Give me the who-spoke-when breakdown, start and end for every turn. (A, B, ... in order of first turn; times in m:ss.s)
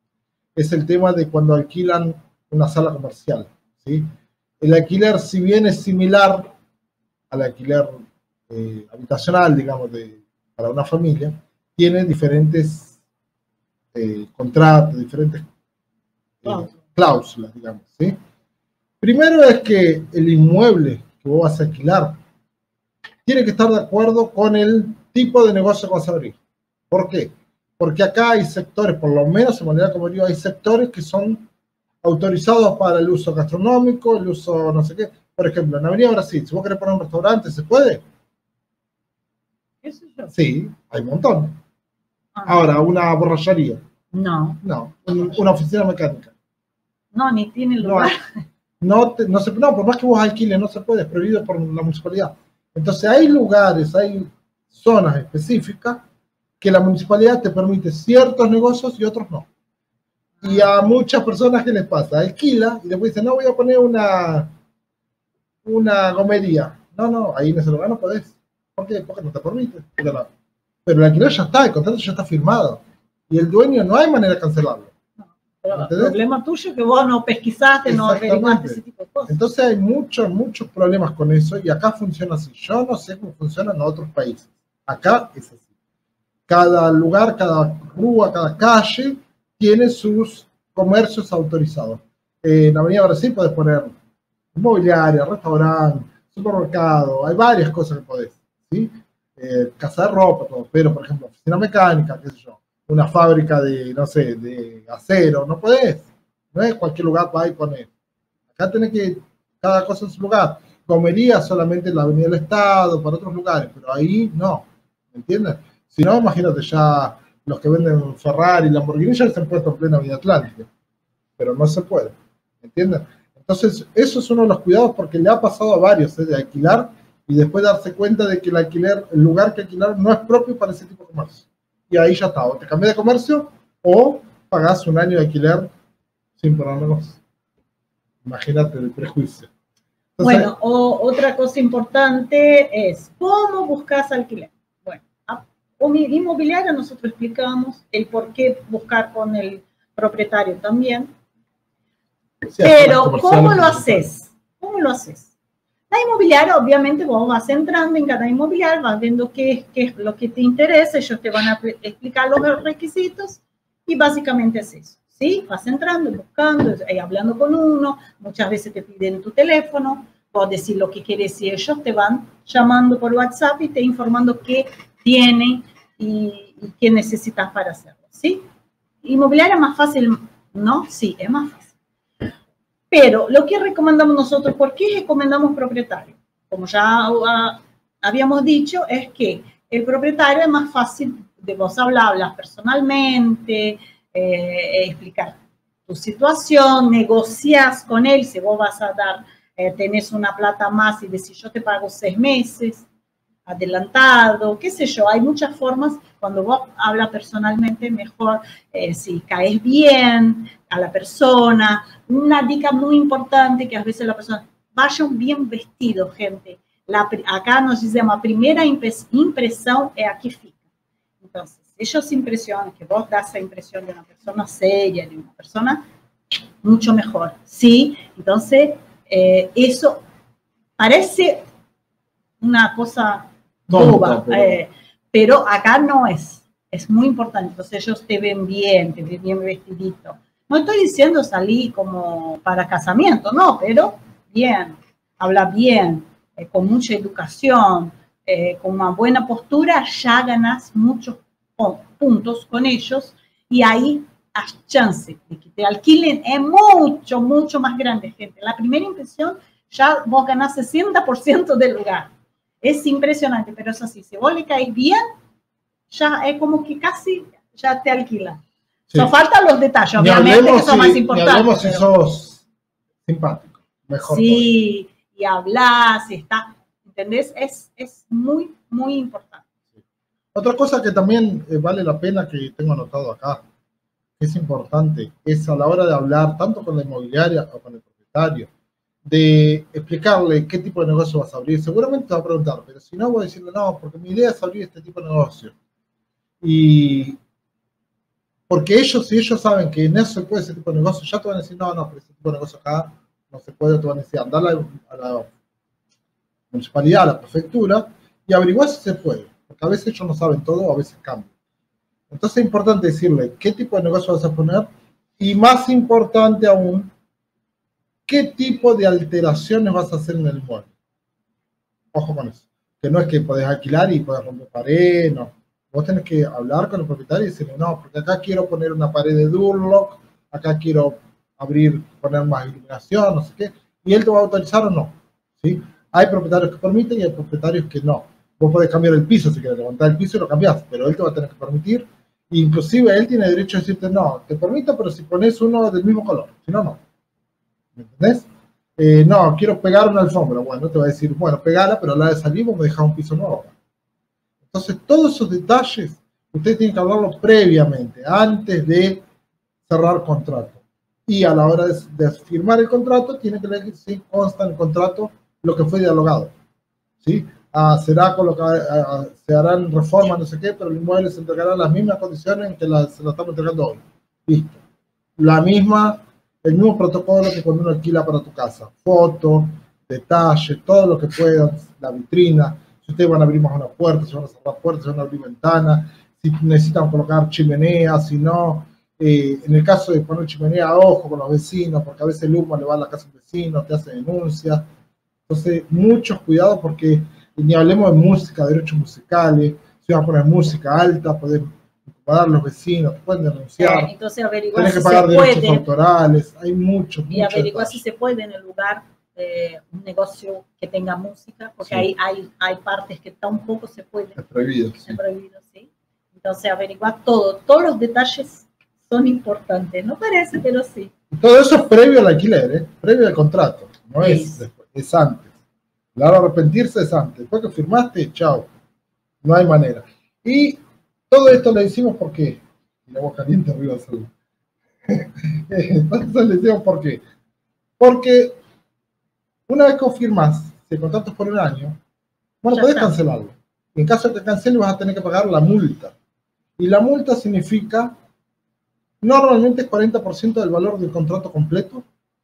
0:00.6-0:04.1 A
0:04.6-0:06.5 A
0:07.3-0:12.9 A
0:13.9-0:15.4 A
0:16.4-0:18.2 A
0:16.5-0:16.8 B
0:19.0-0:22.2 A
0:23.2-0:26.4 A
0:26.9-0:31.4 A
0:32.0-0:38.0 A
0:39.8-0:40.3 B
0:40.3-0:41.6 A
0:42.4-0:42.6 B
0:42.5-0:43.8 A
0:44.1-0:44.6 B
0:44.6-0:46.3 A
0:47.1-0:48.2 B
0:47.8-0:48.1 A
0:48.8-0:56.0 A
0:56.6-0:59.5 A
1:00.4-1:00.7 B
1:00.4-1:04.5 A
1:05.6-1:10.3 A
1:10.8-1:14.9 A
1:15.2-1:19.3 B
1:15.7-1:16.2 A
1:17.8-1:25.6 A
1:26.5-1:34.0 A
1:34.5-1:47.9 A
1:48.5-2:00.7 A
2:01.4-2:15.7 A
2:16.4-2:17.2 A
2:18.2-2:19.5 A
2:20.2-2:20.5 A
2:20.2-2:31.1 B
2:32.5-2:34.1 A
2:32.6-2:35.3 B
2:35.9-2:58.4 B
2:59.0-3:01.7 B
3:02.9-3:22.8 B
3:23.4-3:40.5 B
3:41.2-3:45.8 B
3:46.6-3:50.0 B
3:50.8-3:51.4 B
3:52.4-4:22.1 B
3:53.7-3:54.6 A
4:22.6-4:25.0 B
4:25.9-4:28.4 B
4:28.9-4:31.8 B
4:30.0-4:32.4 A
4:33.0-4:34.5 A
4:34.1-4:39.4 B
4:40.3-4:43.4 A
4:44.2-4:48.5 A
4:49.0-4:55.5 A
4:56.4-4:57.2 A
4:58.5-5:05.3 A
5:06.5-5:11.3 A
5:12.1-5:16.9 A
5:18.1-5:20.7 A
5:21.9-5:46.8 A
5:47.8-5:53.5 A
5:54.4-5:59.0 A
5:59.7-6:06.3 A
6:07.0-6:14.6 A
6:15.2-6:34.6 A
6:35.3-6:43.9 A
6:43.6-6:45.6 B
6:44.5-6:47.8 A
6:47.1-6:54.2 B
6:54.2-6:55.0 A
6:54.8-7:00.9 B
7:01.1-7:05.3 A
7:04.0-7:04.4 B
7:06.0-7:08.5 A
7:09.2-7:14.1 A
7:14.9-7:17.0 A
7:17.8-7:18.4 A
7:19.5-7:21.8 A
7:22.4-7:25.9 A
7:22.5-7:22.9 B
7:26.6-7:27.9 A
7:29.0-7:31.8 A